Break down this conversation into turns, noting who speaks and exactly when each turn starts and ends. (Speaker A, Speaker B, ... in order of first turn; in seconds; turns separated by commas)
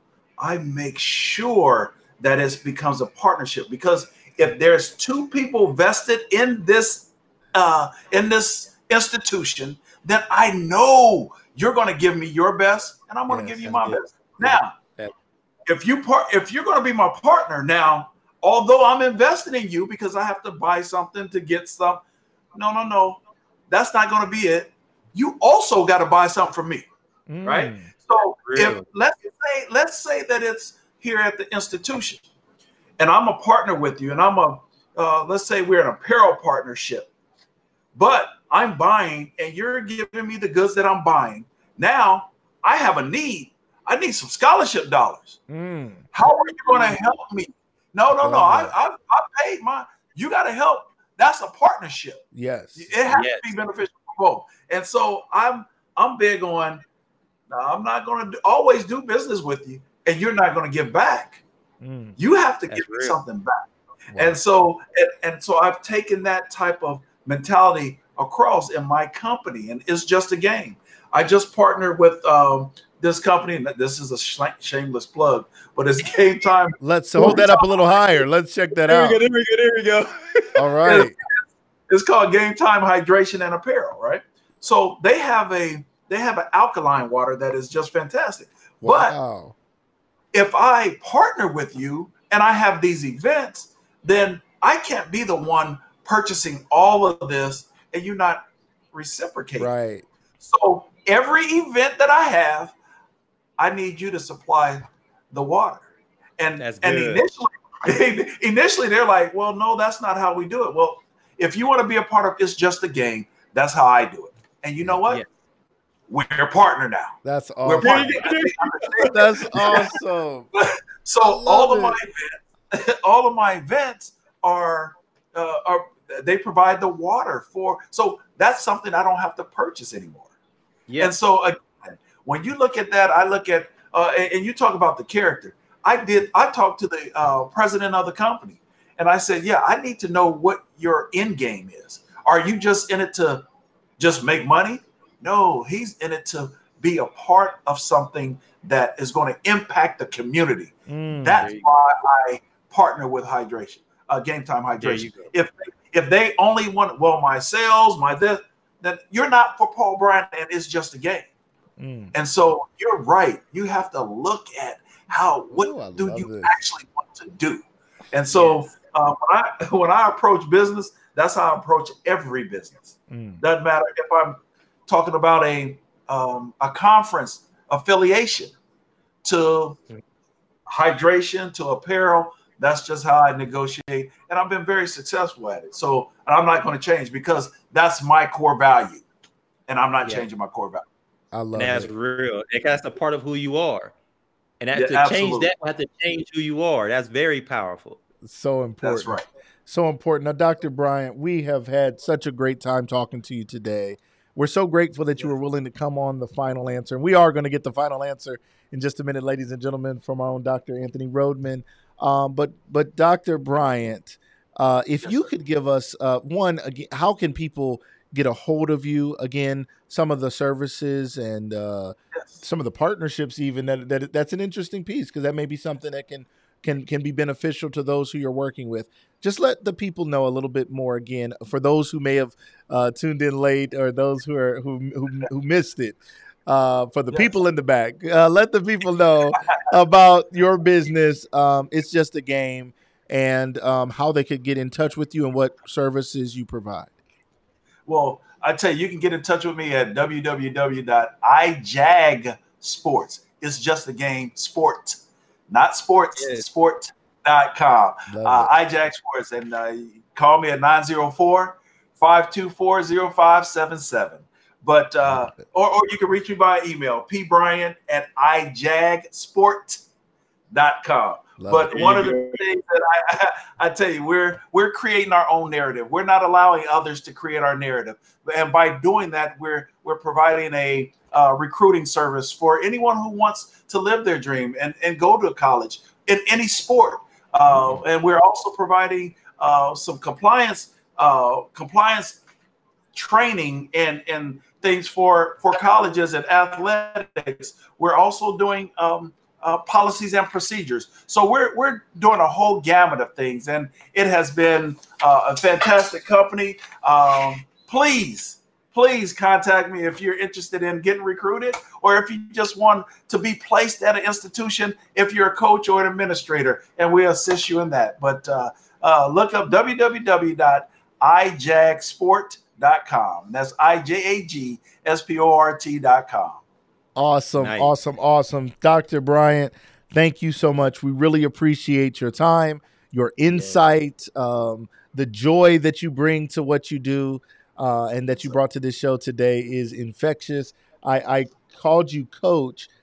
Speaker A: 0.4-14.7, Speaker B: 13.3-13.9, Speaker C: 13.7-14.0, Speaker A: 15.7-22.0, Speaker A: 22.6-26.9, Speaker B: 27.3-27.9, Speaker A: 27.4-32.2, Speaker C: 28.4-28.9, Speaker A: 33.0-37.1, Speaker A: 38.0-45.4, Speaker B: 45.5-46.0, Speaker A: 46.1-52.2, Speaker B: 48.2-48.7, Speaker B: 52.3-52.9, Speaker A: 52.8-56.8, Speaker C: 53.1-53.6, Speaker A: 57.5-61.4, Speaker B: 61.8-62.1, Speaker A: 62.2-78.2, Speaker C: 62.7-63.2, Speaker B: 64.1-64.4, Speaker B: 76.8-79.2, Speaker A: 78.9-80.0, Speaker B: 80.5-81.2, Speaker A: 80.8-89.2, Speaker B: 88.8-89.5, Speaker A: 90.3-99.7, Speaker B: 99.6-100.1, Speaker A: 100.4-102.7, Speaker A: 103.6-105.9, Speaker A: 106.4-115.2, Speaker C: 106.6-107.2, Speaker A: 116.1-119.9, Speaker B: 117.2-118.2, Speaker C: 117.8-118.9, Speaker B: 119.0-120.5, Speaker A: 120.5-130.3, Speaker B: 121.2-122.0, Speaker C: 130.9-131.1, Speaker A: 131.0-143.4, Speaker A: 144.0-161.3, Speaker B: 150.9-151.5, Speaker C: 151.3-151.7, Speaker C: 154.8-155.3, Speaker B: 161.8-162.1, Speaker A: 162.1-178.5, Speaker B: 165.5-166.5, Speaker C: 168.3-168.7, Speaker B: 173.1-173.4, Speaker A: 179.2-179.8, Speaker A: 180.7-189.1, Speaker A: 189.7-190.8, Speaker B: 191.3-191.9, Speaker C: 191.6-193.9, Speaker C: 194.6-198.0, Speaker A: 194.8-195.5, Speaker B: 198.2-246.9, Speaker A: 198.8-199.3, Speaker A: 222.1-222.4, Speaker A: 247.9-269.8, Speaker C: 256.2-256.5, Speaker B: 258.1-258.5, Speaker B: 265.1-265.4, Speaker A: 270.5-292.2, Speaker B: 271.4-271.8, Speaker C: 271.7-272.4, Speaker A: 292.9-326.4, Speaker B: 326.9-342.7, Speaker C: 327.4-327.7